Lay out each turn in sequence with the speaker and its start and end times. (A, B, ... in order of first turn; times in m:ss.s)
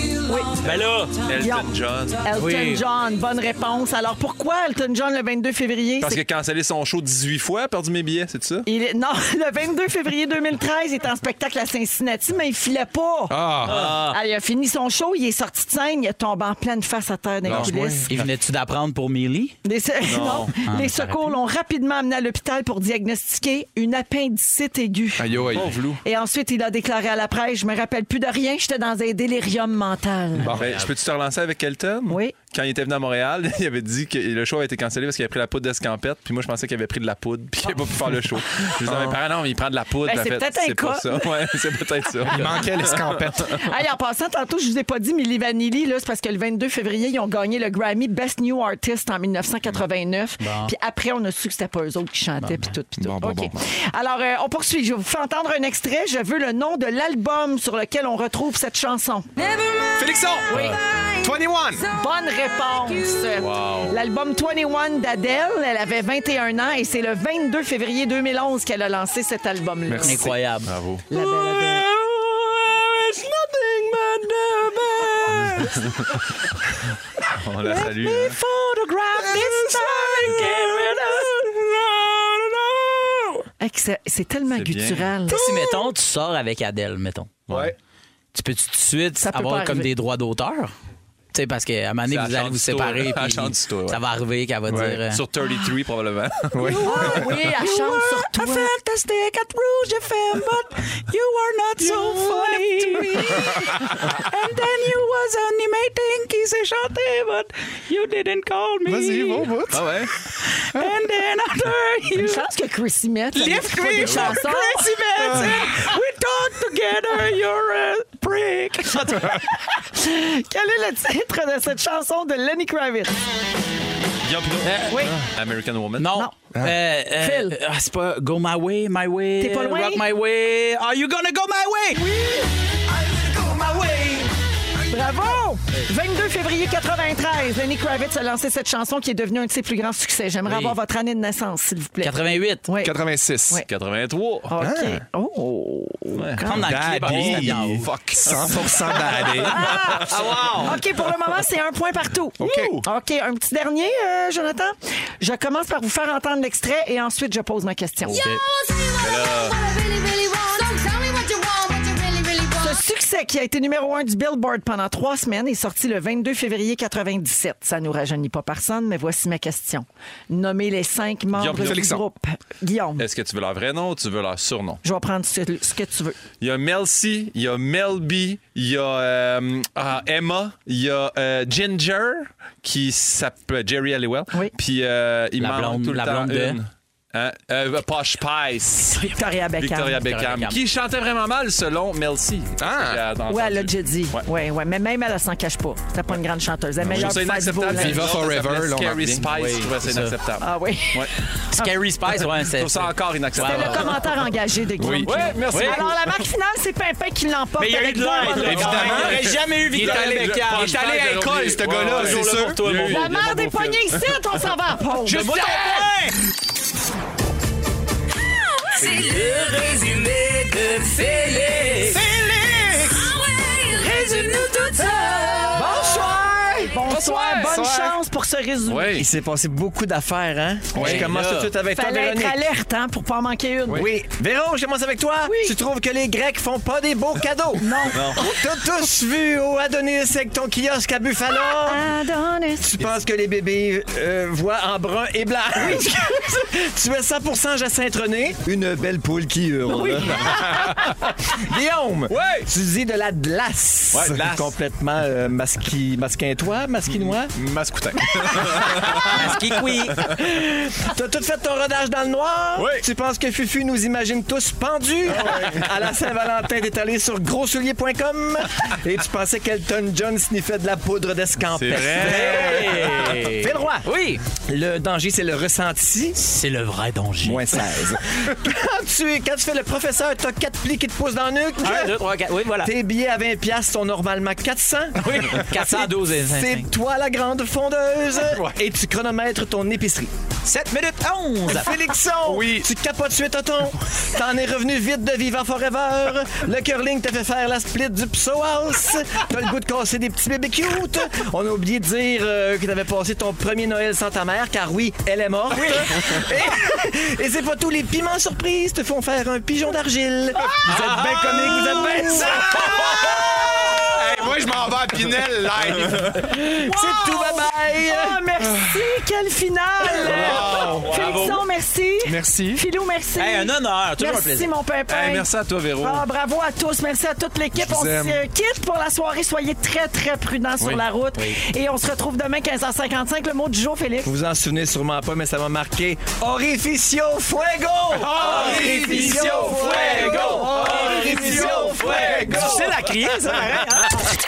0:00.2-0:00.5 A
0:00.5-0:01.2 B
0:01.2-0:02.2 C
0:01.4-0:01.7 A
0:02.2-0:06.2 A
0:02.4-0:02.8 B
0:06.0-0:08.7 C
0:08.6-0:18.1 A
0:13.3-0:13.8 D
0:13.6-0:14.2 B
0:17.4-0:18.2 D
0:18.1-0:19.6 B
0:19.6-0:30.6 A
0:20.0-0:20.5 C
0:20.2-0:21.3 B
0:25.2-0:25.7 D
0:25.5-0:26.0 C
0:30.3-0:30.8 D
0:30.5-0:30.9 B
0:30.6-0:43.6 C
0:32.1-0:32.3 A
0:38.8-0:39.2 D
0:40.0-0:41.5 A
0:42.2-0:42.4 A
0:42.2-0:43.6 D
0:43.5-0:59.3 A
0:50.4-0:50.7 B
0:53.0-0:53.6 D
0:59.4-1:00.1 E
1:00.0-1:00.6 D
1:00.5-1:00.8 A
1:00.5-1:00.8 B
1:01.2-1:01.9 D
1:01.9-1:10.3 A
1:03.4-1:04.0 C
1:09.8-1:10.3 D
1:10.0-1:10.7 B
1:10.6-1:11.0 C
1:11.1-1:11.9 A
1:11.7-1:13.0 B
1:13.9-1:15.8 B
1:15.2-1:16.0 A
1:17.3-1:18.4 C
1:17.7-1:21.3 A
1:17.8-1:18.5 B
1:19.1-1:23.4 B
1:23.6-1:25.8 A
1:24.5-1:25.1 C
1:25.3-1:27.4 B
1:27.5-1:27.7 C
1:28.3-1:30.7 B
1:29.2-1:29.9 A
1:31.3-1:35.2 B
1:32.1-1:34.0 C
1:34.7-1:35.0 D
1:35.1-1:37.0 C
1:36.5-1:37.3 D
1:36.6-1:38.7 A
1:36.7-1:49.5 B
1:41.9-1:43.4 C
1:48.8-1:49.9 D
1:49.7-1:50.1 C
1:50.5-1:52.5 B
1:52.2-1:56.0 A
1:53.3-1:59.4 B
1:54.0-1:54.4 C
1:55.2-1:55.5 D
1:58.8-2:03.2 A
2:04.2-2:06.1 C
2:04.6-2:05.1 B
2:04.9-2:05.3 A
2:06.0-2:12.0 B
2:07.2-2:07.5 A
2:09.4-2:10.0 A
2:12.0-2:12.5 A
2:12.9-2:14.3 F
2:14.8-2:22.9 A
2:20.4-2:20.8 B
2:22.0-2:22.6 B
2:22.8-2:23.6 D
2:23.7-2:24.5 C
2:24.5-2:26.8 A
2:24.6-2:25.0 D
2:26.1-2:26.4 C
2:26.4-2:27.8 B
2:26.5-2:29.7 D
2:27.0-2:30.6 C
2:29.4-2:38.2 A
2:29.8-2:30.8 B
2:32.4-2:32.8 D
2:32.4-2:32.8 C
2:38.0-2:42.8 E
2:38.1-2:38.4 B
2:39.0-2:39.5 C
2:42.6-2:53.0 A
2:51.3-2:51.9 C
2:51.5-2:52.0 D
2:53.0-2:54.8 C
2:54.8-2:56.2 A
2:56.4-3:09.0 C
3:05.4-3:06.6 B
3:08.8-3:10.0 A
3:09.6-3:14.2 C
3:10.0-3:10.6 B
3:12.6-3:13.0 D
3:13.3-3:18.1 A
3:16.8-3:21.1 C
3:16.8-3:17.1 D
3:17.7-3:19.3 D
3:19.3-3:20.1 B
3:20.4-3:21.1 A
3:21.5-3:24.0 B
3:22.3-3:24.2 C
3:23.4-3:29.2 A
3:24.8-3:25.2 D
3:24.9-3:26.2 C
3:25.5-3:25.8 B
3:27.6-3:33.1 B
3:28.4-3:32.7 D
3:28.6-3:34.4 C
3:32.8-3:35.9 A
3:35.0-3:36.2 B
3:38.7-3:42.0 B
3:43.1-3:44.6 E
3:43.6-3:46.1 B
3:45.1-3:45.8 E
3:45.5-3:49.0 A
3:47.1-3:47.4 B
3:47.2-3:48.0 D
3:48.6-3:49.1 C
3:49.0-3:52.4 F
3:50.7-3:51.1 D
3:50.7-3:51.6 C
3:50.7-3:51.5 B
3:51.7-3:53.9 A
3:53.7-4:01.8 F
3:55.2-3:55.6 A
3:57.6-3:58.4 A
4:01.4-4:02.9 A
4:02.6-4:10.5 F
4:05.6-4:06.4 A
4:09.7-4:10.8 A
4:11.4-4:17.3 F
4:12.1-4:12.5 C
4:13.9-4:14.5 C
4:16.8-4:20.2 C
4:19.0-4:20.0 B
4:20.4-4:36.2 F
4:22.6-4:22.8 C
4:25.1-4:25.7 C
4:31.5-4:32.8 C
4:31.8-4:34.2 B
4:36.2-4:37.6 B
4:37.2-4:42.0 F
4:41.6-4:42.7 B
4:42.6-4:50.1 F
4:45.0-4:46.7 B
4:48.1-4:48.6 D
4:50.4-4:51.7 B
4:51.5-5:13.2 F
4:52.2-4:52.7 D
5:05.5-5:05.8 B
5:10.7-5:16.2 D
5:10.7-5:10.9 B
5:11.6-5:13.9 A
5:15.6-5:16.2 C
5:16.3-5:34.1 A
5:16.6-5:18.2 F
5:16.7-5:17.2 B
5:18.4-5:18.8 D
5:19.9-5:21.2 D
5:20.2-5:21.3 C
5:20.2-5:21.4 B
5:22.0-5:22.6 D
5:23.2-5:24.5 B
5:24.9-5:26.1 C
5:27.5-5:28.2 D
5:34.0-5:44.2 F
5:37.9-5:41.4 D
5:38.1-5:43.9 B